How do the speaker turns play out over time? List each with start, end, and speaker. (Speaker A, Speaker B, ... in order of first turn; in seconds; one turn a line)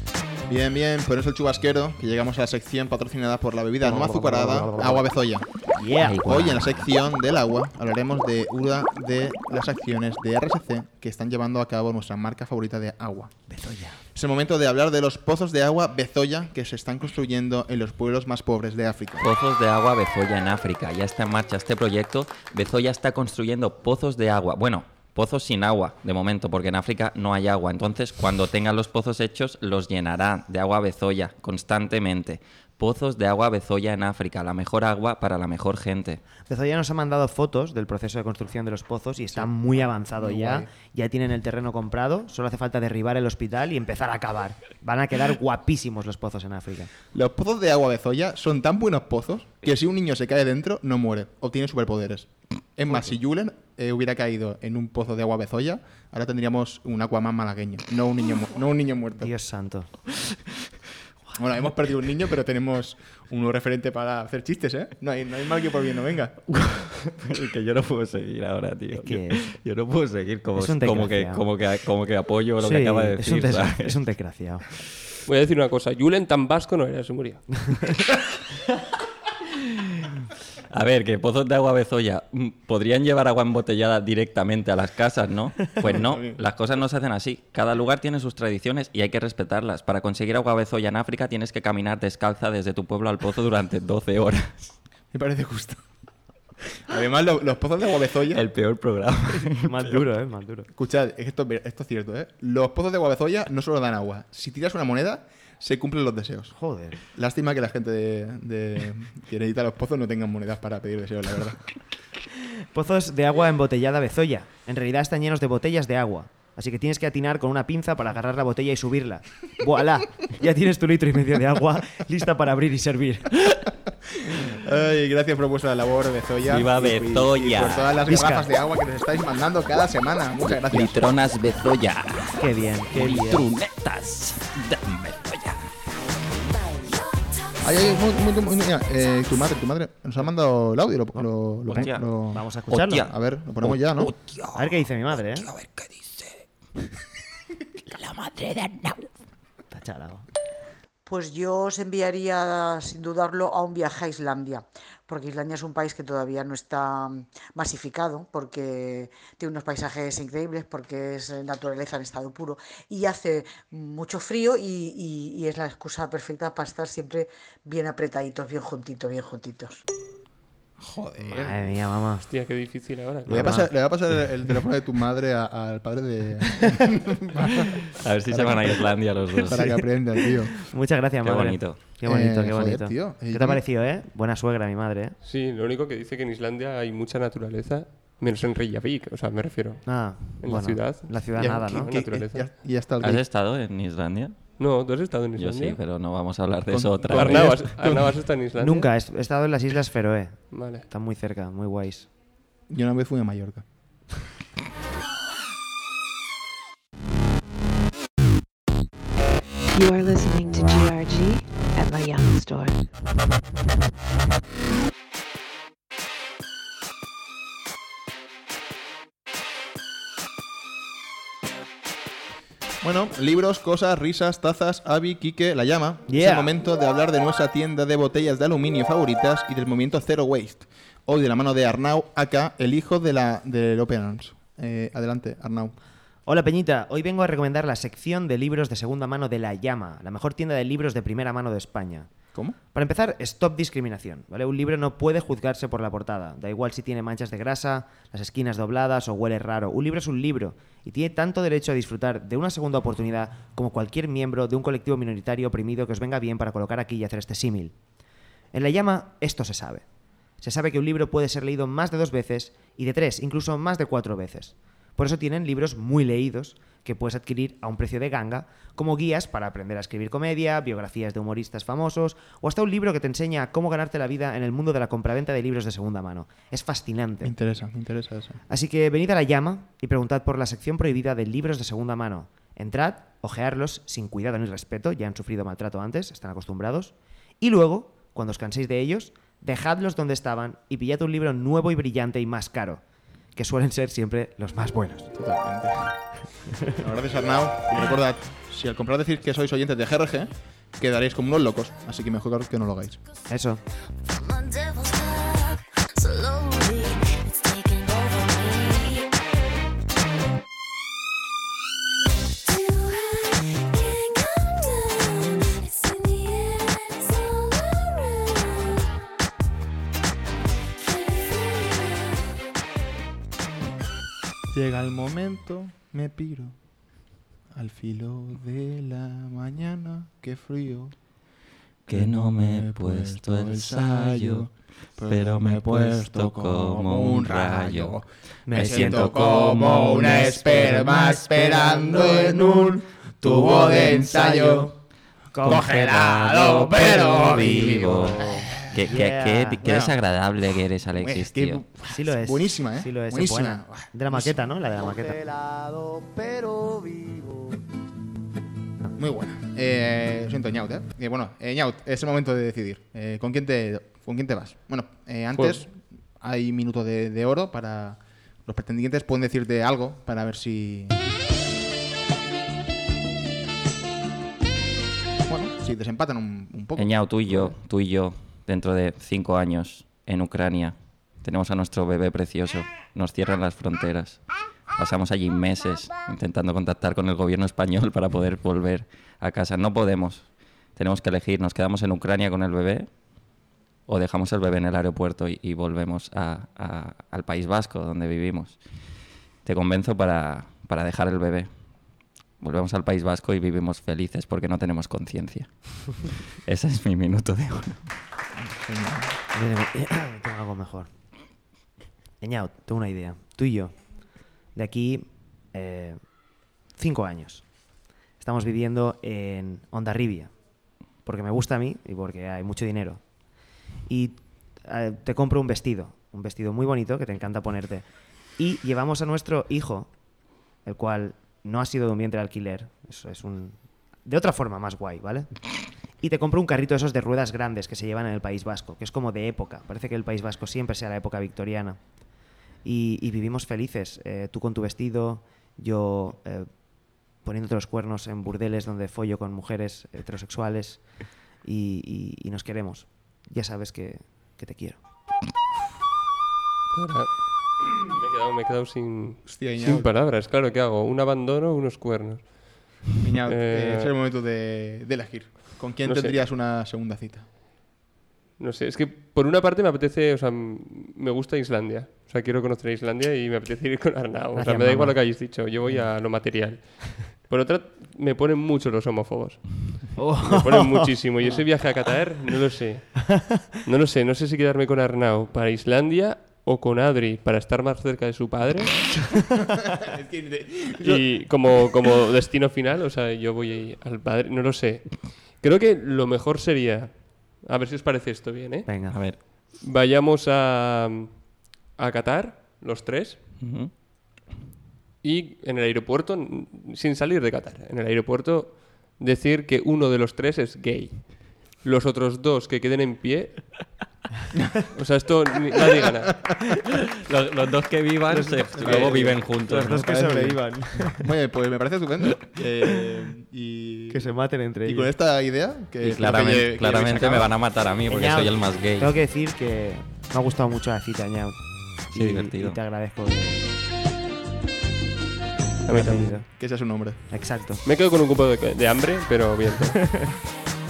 Speaker A: 0.5-5.5
Speaker B: 3.8-5.1
Speaker B: 5.7-6.9
Speaker C: 6.0-6.4
Speaker A: 6.1-13.3
Speaker B: 13.5-14.0
Speaker A: 14.1-19.3
Speaker C: 19.2-36.2
Speaker B: 36.5-46.9
Speaker A: 40.2-40.7
Speaker A: 47.1-59.3
Speaker B: 59.2-60.0
Speaker A: 61.4-66.4
Speaker C: 66.5-74.0
Speaker B: 68.9-69.5
Speaker B: 70.6-71.4
Speaker B: 72.6-74.7
Speaker D: 75.3-77.7
Speaker C: 80.7-94.7
Speaker A: 85.8-86.4
Speaker A: 95.1-95.8
Speaker A: 96.8-98.4
Speaker C: 98.3-100.0
Speaker B: 99.4-100.7
Speaker A: 100.7-106.5
Speaker B: 106.5-107.0
Speaker A: 107.1-111.6
Speaker B: 112.7-123.4
Speaker A: 124.2-131.0
Speaker C: 126.5-128.0
Speaker B: 128.1-128.5
Speaker C: 130.7-135.7
Speaker B: 132.4-133.5
Speaker E: 136.8-137.6
Speaker A: 137.6-144.1
Speaker B: 141.1-143.1
Speaker C: 141.8-142.1
Speaker C: 142.7-146.4
Speaker B: 144.5-145.5
Speaker C: 147.9-149.1
Speaker B: 149.7-150.3
Speaker F: 151.1-169.8
Speaker A: 170.8-171.6
Speaker B: 171.2-172.3
Speaker D: 172.3-173.6
Speaker B: 173.2-174.5
Speaker A: 173.3-178.9
Speaker C: 178.0-179.7
Speaker A: 179.4-180.6
Speaker B: 180.5-185.2
Speaker C: 181.2-181.8
Speaker A: 182.1-183.6
Speaker D: 185.2-192.5
Speaker B: 189.9-192.0
Speaker A: 191.4-193.2
Speaker C: 193.0-194.4
Speaker D: 194.6-195.8
Speaker C: 195.4-197.6
Speaker A: 196.7-198.2
Speaker D: 197.1-198.9
Speaker B: 198.6-202.1
Speaker D: 200.5-200.8
Speaker A: 202.7-203.6
Speaker G: 209.7-212.8
Speaker A: 222.8-235.8
Speaker B: 226.1-226.5
Speaker B: 236.3-242.1
Speaker B: 242.7-257.7
Speaker B: 258.5-259.8
Speaker B: 260.4-277.3
Speaker A: 277.2-278.4
Speaker B: 278.5-292.8
Speaker B: 293.4-295.1
Speaker A: 295.2-296.0
Speaker A: 296.7-303.0
Speaker B: 303.3-303.6
Speaker E: 304.2-309.2
Speaker E: 312.4-319.1
Speaker E: 320.8-322.4
Speaker A: 324.5-326.6
Speaker A: 327.5-330.9
Speaker C: 331.9-334.5
Speaker A: 331.9-344.7
Speaker C: 335.1-338.0
Speaker B: 338.5-339.3
Speaker C: 338.5-340.9
Speaker B: 341.3-342.4
Speaker B: 345.3-349.6
Speaker C: 345.4-348.2
Speaker A: 345.5-348.8
Speaker C: 348.7-351.6
Speaker A: 349.6-350.0
Speaker A: 351.0-354.4
Speaker B: 351.9-355.2
Speaker B: 356.4-357.2
Speaker A: 359.0-371.0
Speaker D: 365.3-365.6
Speaker A: 375.3-377.6
Speaker C: 376.8-384.2
Speaker C: 384.8-392.9
Speaker C: 393.9-398.6
Speaker C: 399.4-401.5
Speaker C: 402.4-405.9
Speaker C: 406.4-407.9
Speaker A: 408.4-409.2
Speaker B: 409.3-410.9
Speaker B: 412.2-413.8
Speaker B: 414.6-416.0
Speaker B: 416.8-417.4
Speaker B: 418.2-420.3
Speaker B: 421.1-423.0
Speaker B: 423.9-427.9
Speaker B: 428.4-429.9
Speaker B: 430.6-435.3
Speaker B: 436.0-441.8
Speaker B: 442.6-446.5
Speaker B: 447.2-450.8
Speaker B: 451.4-454.8
Speaker D: 456.7-463.9
Speaker A: 459.3-459.9
Speaker A: 463.0-467.3
Speaker D: 465.9-466.2
Speaker D: 468.4-489.1
Speaker B: 474.3-475.0
Speaker B: 480.0-481.4
Speaker A: 489.8-491.0
Speaker D: 490.8-498.7
Speaker B: 498.7-499.0
Speaker C: 498.9-499.2
Speaker D: 499.6-501.2
Speaker D: 501.7-503.2
Speaker C: 503.4-503.7
Speaker D: 505.0-513.7
Speaker D: 514.7-516.2
Speaker C: 517.0-519.9
Speaker B: 518.1-521.1
Speaker A: 518.5-519.2
Speaker A: 519.8-524.0
Speaker B: 523.9-524.9
Speaker A: 524.6-527.3
Speaker C: 525.8-528.9
Speaker B: 527.9-533.5
Speaker C: 531.9-532.6
Speaker D: 535.7-536.2
Speaker B: 535.7-536.3
Speaker A: 536.3-537.0
Speaker B: 537.1-537.6
Speaker D: 537.6-539.8